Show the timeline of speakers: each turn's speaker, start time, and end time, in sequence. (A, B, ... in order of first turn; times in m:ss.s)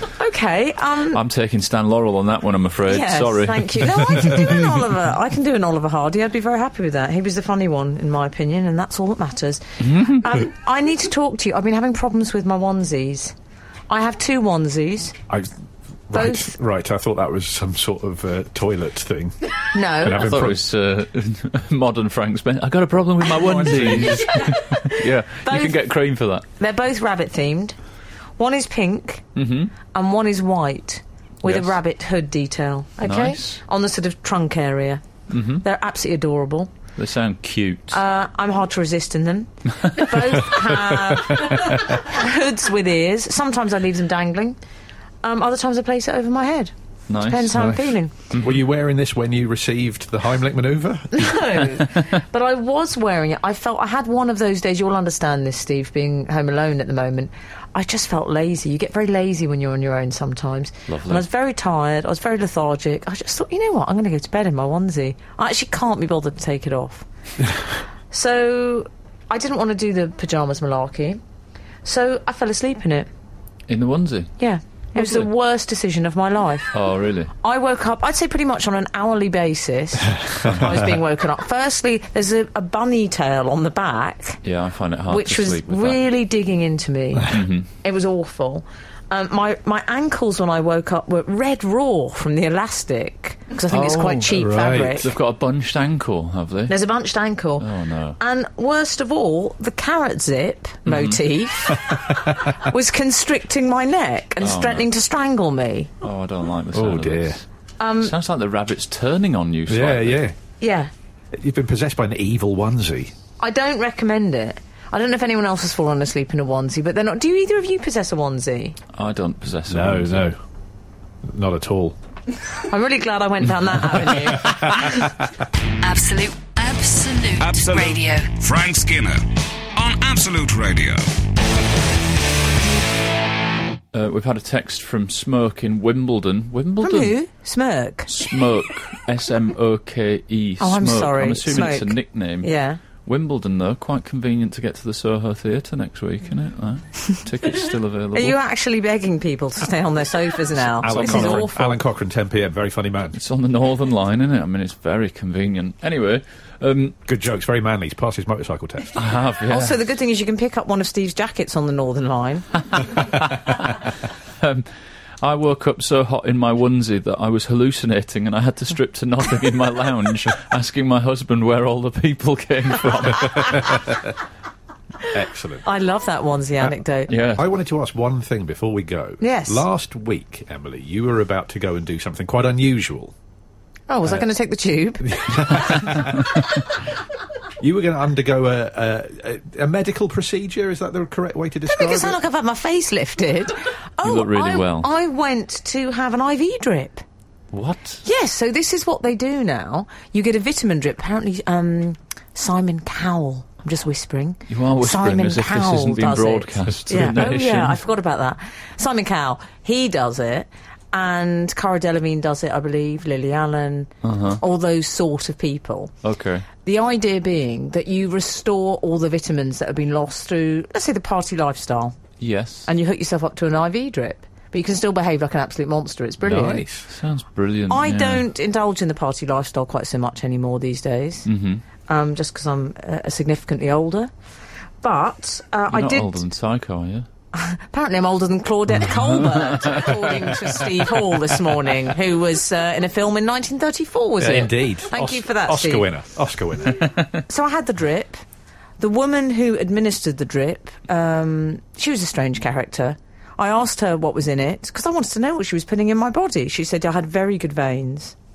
0:00.2-0:01.2 A
0:01.1-0:04.7 B
0:02.9-0:13.3 A
0:09.8-0:10.3 B
0:13.9-0:15.2 A
0:16.1-0:19.4 C
0:16.1-0:16.6 A
0:19.7-0:20.4 A
0:19.9-0:20.6 C
0:20.1-0:26.4 B
0:23.3-0:24.5 C
0:24.0-0:25.8 A
0:26.6-0:27.8 A
0:28.4-0:29.2 A
0:29.3-0:29.7 B
0:29.9-0:35.0 A
0:31.4-0:31.8 B
0:33.0-0:33.6 B
0:35.3-0:35.6 B
0:35.6-0:36.7 A
0:37.0-0:38.0 B
0:37.9-0:44.6 A
0:39.8-0:40.5 B
0:45.2-0:48.1 A
0:47.1-0:47.8 B
0:47.5-0:51.4 C
0:51.1-1:07.0 A
0:51.8-0:52.0 B
1:00.9-1:01.2 B
1:08.1-1:11.2 A
1:11.8-1:13.1 A
1:13.7-1:14.3 B
1:14.4-1:16.7 A
1:15.0-1:15.3 B
1:16.7-1:17.3 B
1:17.4-1:24.4 A
1:20.4-1:20.9 B
1:24.4-1:26.0 B
1:25.1-1:35.1 A
1:27.3-1:27.7 B
1:33.7-1:36.7 B
1:34.3-1:35.1 C
1:36.7-1:37.7 A
1:37.6-1:38.2 B
1:38.2-1:45.9 A
1:40.9-1:41.2 B
1:42.1-1:42.3 C
1:44.4-1:44.9 B
1:46.0-1:47.4 B
1:46.7-1:47.4 C
1:47.8-1:48.1 A
1:48.0-1:50.2 B
1:49.7-1:50.3 C
1:50.6-1:50.9 A
1:51.3-1:53.1 C
1:53.4-1:58.8 A
1:58.9-2:00.3 B
1:59.7-2:00.4 C
2:01.2-2:02.0 C
2:02.7-2:05.1 A
2:05.8-2:08.3 D
2:07.4-2:11.1 E
2:13.9-2:17.1 B
2:16.8-2:18.1 A
2:18.1-2:22.5 B
2:20.6-2:22.8 A
2:23.0-2:28.4 B
2:28.1-2:31.8 A
2:30.8-2:31.6 B
2:30.8-2:33.2 C
2:33.1-2:37.0 B
2:37.1-2:39.0 C
2:38.9-2:39.8 B
2:39.5-2:42.8 A
2:42.9-2:43.7 B
2:44.4-2:44.7 B
2:45.2-2:53.8 B
2:53.4-2:54.1 C
2:55.0-2:55.6 C
2:55.6-2:57.1 A
2:57.1-2:57.5 B
2:57.3-3:03.1 C
2:59.2-2:59.6 A
3:03.9-3:05.9 A
3:05.1-3:06.4 C
3:07.6-3:12.2 C
3:11.7-3:17.0 A
3:14.0-3:14.9 B
3:17.5-3:18.0 B
3:18.0-3:35.9 A
3:24.5-3:27.8 B
3:34.0-3:34.4 B
3:36.0-3:36.4 B
3:36.6-3:42.0 A
3:42.2-3:42.7 B
3:42.7-3:46.6 A
3:46.2-3:46.9 C
3:46.9-3:48.3 B
3:47.7-3:51.3 A
3:51.3-3:51.6 B
3:51.9-3:54.1 A
3:54.8-3:56.2 A
3:55.7-3:57.1 B
3:57.3-4:05.9 A
3:59.1-4:00.0 B
4:04.2-4:06.9 C
4:07.2-4:08.2 A
4:08.8-4:18.1 A